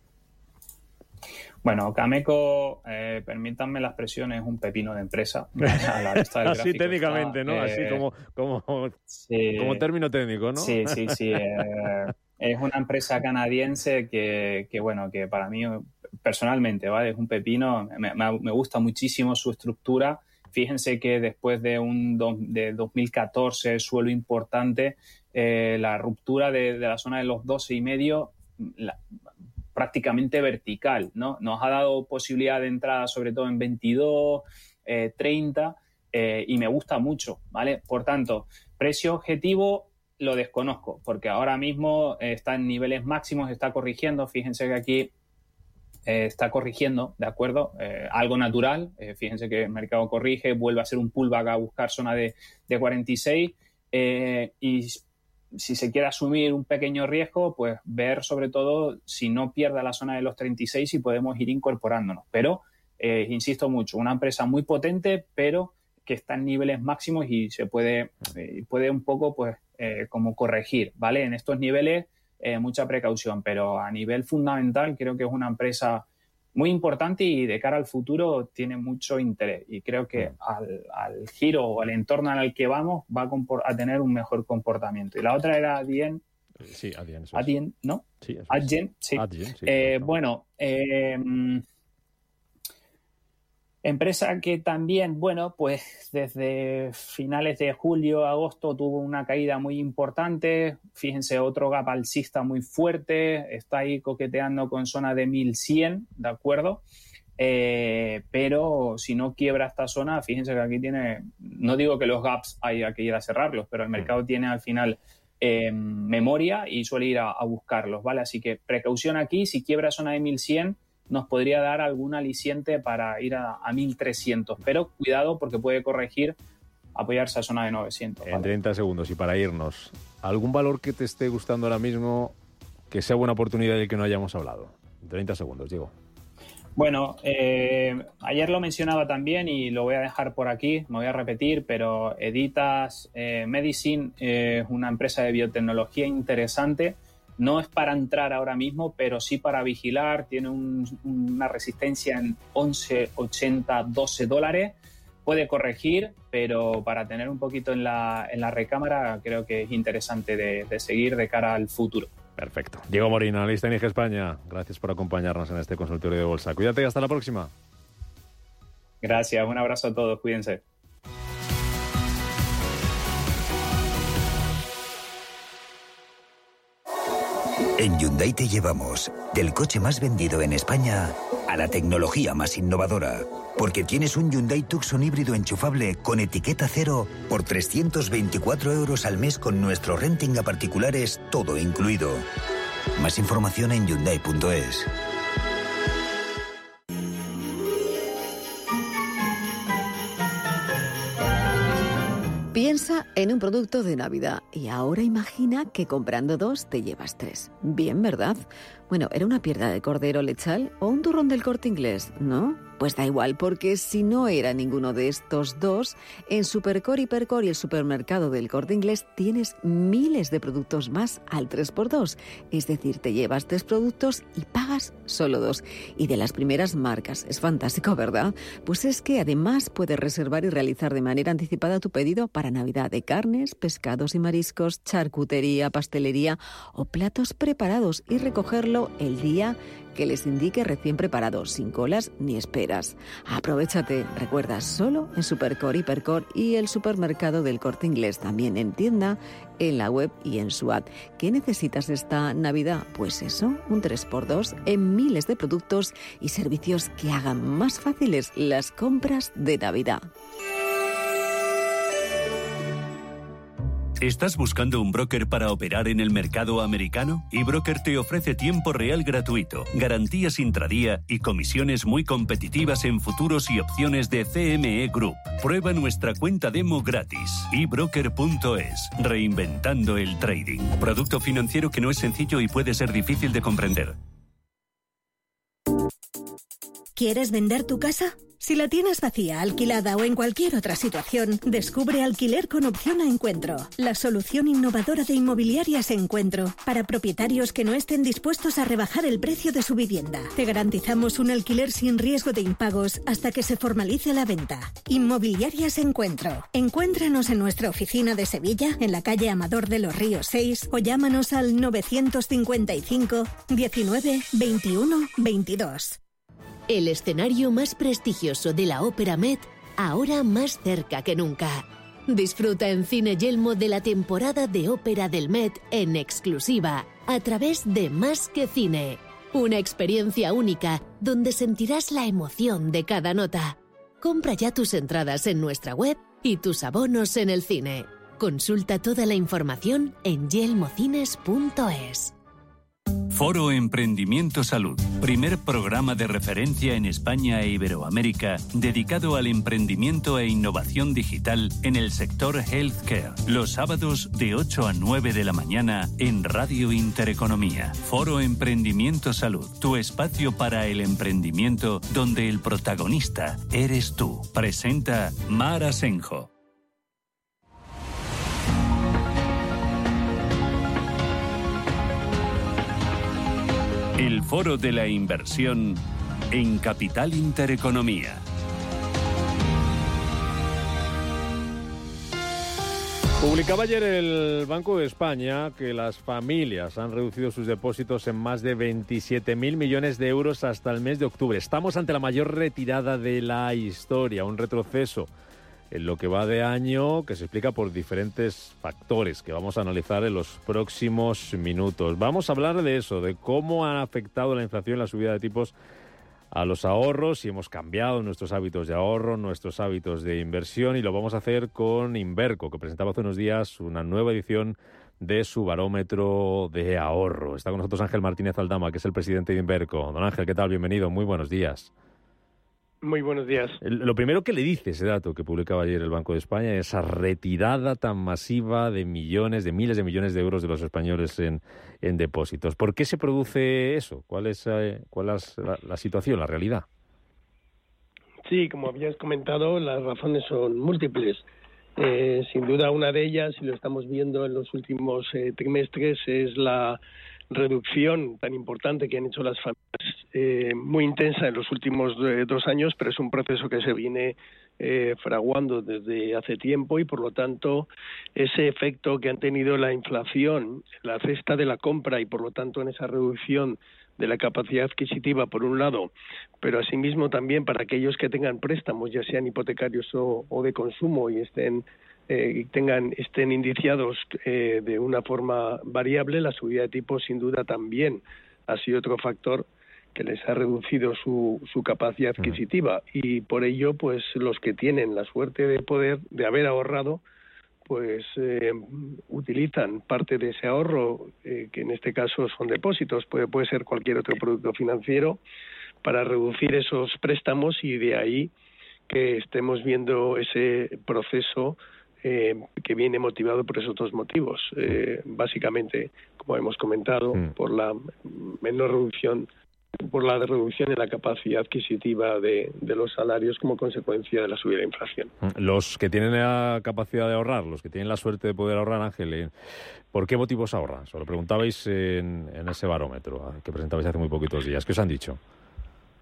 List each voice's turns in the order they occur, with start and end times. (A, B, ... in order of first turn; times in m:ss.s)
0:01.6-0:08.0 A
0:06.4-0:09.0 B
0:09.1-0:09.8 A
0:09.6-0:11.2 B
0:10.6-0:29.0 A
0:29.7-0:45.1 A
0:46.1-1:26.2 A
1:26.6-1:27.5 B
1:27.3-1:31.6 A
1:28.2-1:30.1 B
1:33.8-1:46.8 A
1:47.4-2:06.4 A
2:07.0-2:08.5 A
2:08.2-2:12.3 B
2:12.9-2:15.9 B
2:16.8-2:42.1 A
2:42.4-2:47.5 B
2:49.0-2:50.6 A
2:57.8-3:12.2 C
3:13.0-3:14.9 C
3:22.5-4:20.1 D
4:24.0-4:44.0 E
4:47.0-5:16.0 F
5:16.7-5:42.2 G
5:43.1-6:06.3 E
6:14.0-6:18.2 E
6:23.2-6:35.1 B
6:35.7-6:45.5 B
6:46.3-7:01.7 B
7:02.8-7:03.6 H
7:03.6-7:16.7 B
7:18.3-7:21.2 H
7:21.8-7:26.8 H
7:27.3-8:07.0 H
8:07.7-8:15.2 H
8:15.8-8:18.3 H
8:18.9-8:29.3 H
8:29.8-8:35.1 H
8:35.2-8:39.3 B
8:39.9-8:45.2 B